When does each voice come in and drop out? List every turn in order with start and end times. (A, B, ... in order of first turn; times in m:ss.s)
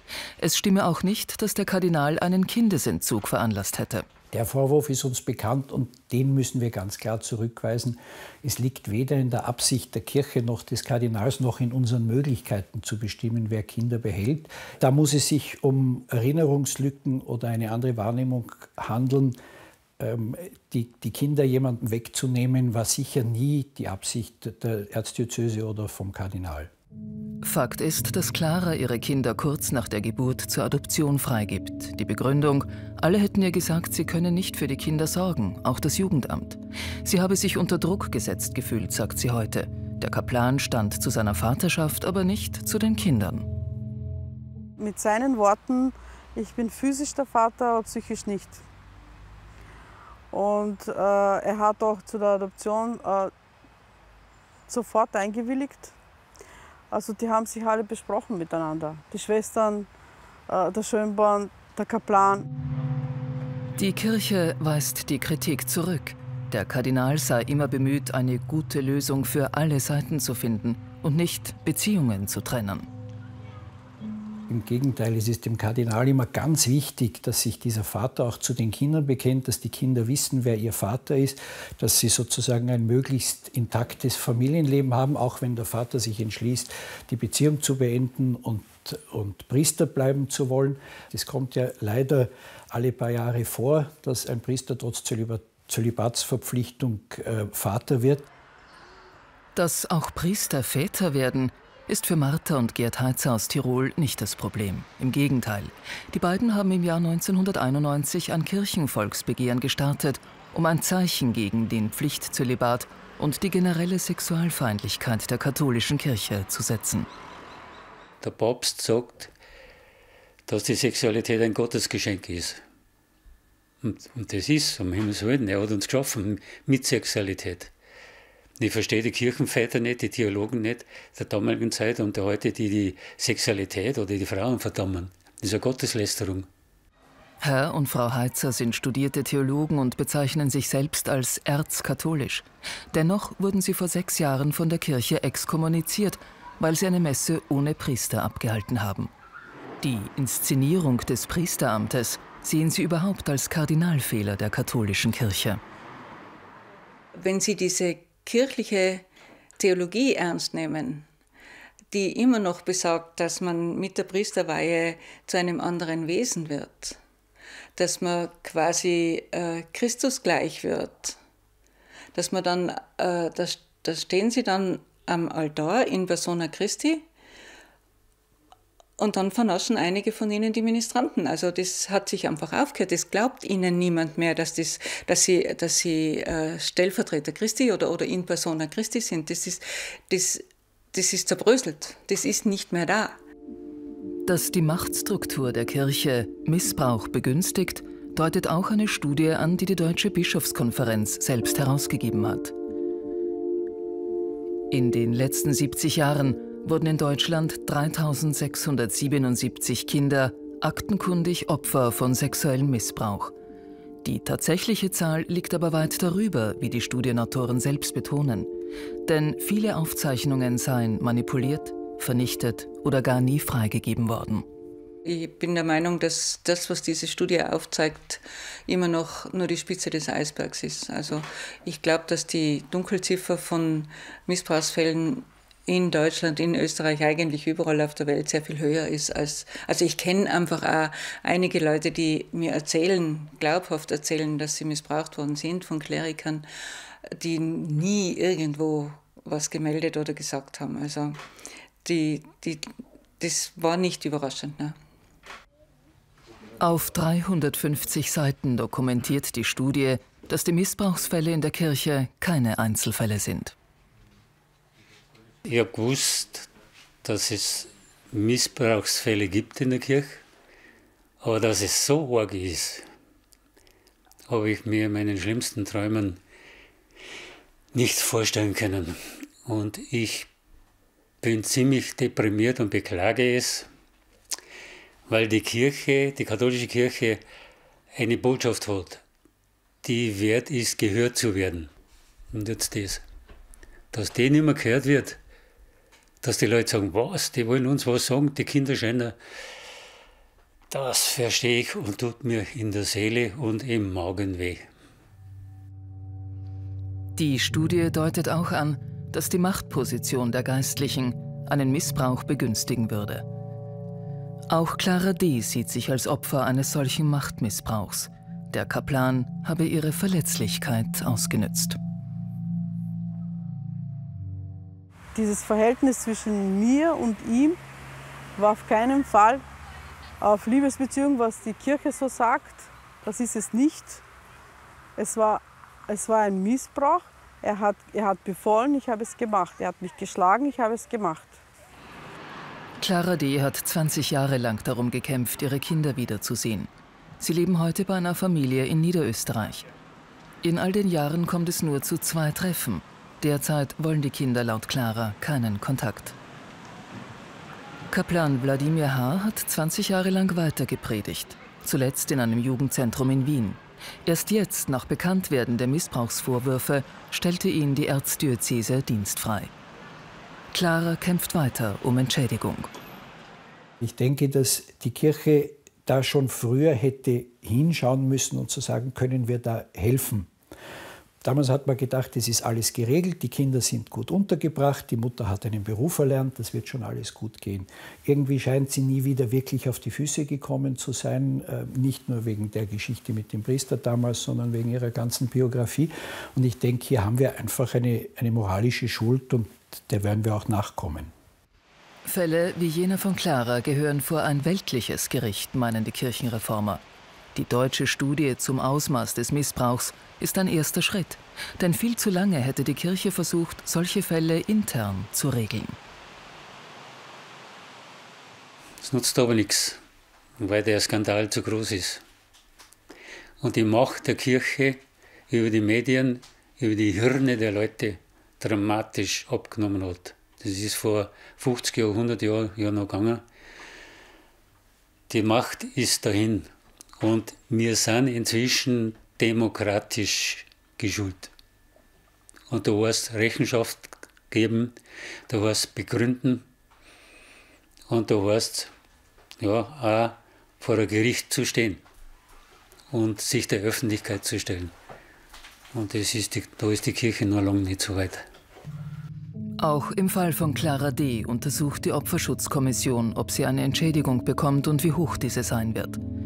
0:00.4-0:04.1 A
0:04.3-0:19.4 B
0:20.0-0:26.7 B
0:27.4-0:43.5 A
0:44.8-0:48.6 C
0:50.3-0:53.3 C
0:54.7-0:55.9 C
0:56.9-0:59.9 C
1:00.5-1:02.5 C
1:03.8-1:12.9 A
1:14.5-1:38.3 B
1:39.6-1:57.1 A
1:58.2-1:59.3 D
2:00.5-2:02.6 D
2:03.8-2:07.7 D
2:08.6-2:16.5 D
2:17.4-2:29.1 A
2:29.8-2:35.6 A
2:37.1-2:39.1 E
2:39.6-2:41.1 E
2:41.9-2:47.0 E
2:47.8-2:51.2 E
2:52.1-2:57.1 E
2:59.0-3:13.2 E
3:14.3-3:22.5 A
3:24.7-3:33.4 A
3:34.0-3:38.5 A
3:39.1-3:44.5 A
3:45.0-4:06.5 E
4:07.1-4:11.2 E
4:11.8-4:14.8 E
4:16.6-4:23.6 A
4:25.4-4:26.5 D
4:27.0-4:30.2 D
4:31.2-4:32.9 D
4:34.3-4:36.2 D
4:37.7-4:40.3 D
4:41.2-4:43.7 D
4:45.1-4:47.2 D
4:47.9-4:49.0 D
4:49.8-4:51.7 D
4:52.3-4:53.0 D
4:53.9-4:55.2 D
4:56.2-4:59.2 D
5:00.7-5:04.7 D
5:07.2-5:13.2 A
5:14.5-5:21.8 A
5:25.2-5:27.6 C
5:28.4-5:29.4 C
5:30.2-5:34.0 C
5:35.0-5:41.4 C
5:42.8-5:46.7 A
5:47.2-5:49.7 A
5:50.4-5:56.2 A
5:57.9-6:09.5 A
6:10.5-6:12.7 A
6:13.8-6:20.3 B
6:21.2-6:41.1 B
6:42.0-6:46.8 A
6:47.4-6:55.8 A
6:58.8-6:59.8 D
7:00.4-7:02.0 D
7:03.4-7:13.2 D
7:15.1-7:16.5 D
7:17.0-7:21.3 D
7:22.5-7:24.8 D
7:25.3-7:26.4 D
7:27.9-7:28.7 D
7:29.4-7:31.8 D
7:32.9-7:34.7 D
7:35.7-7:38.3 D
7:39.6-7:46.0 A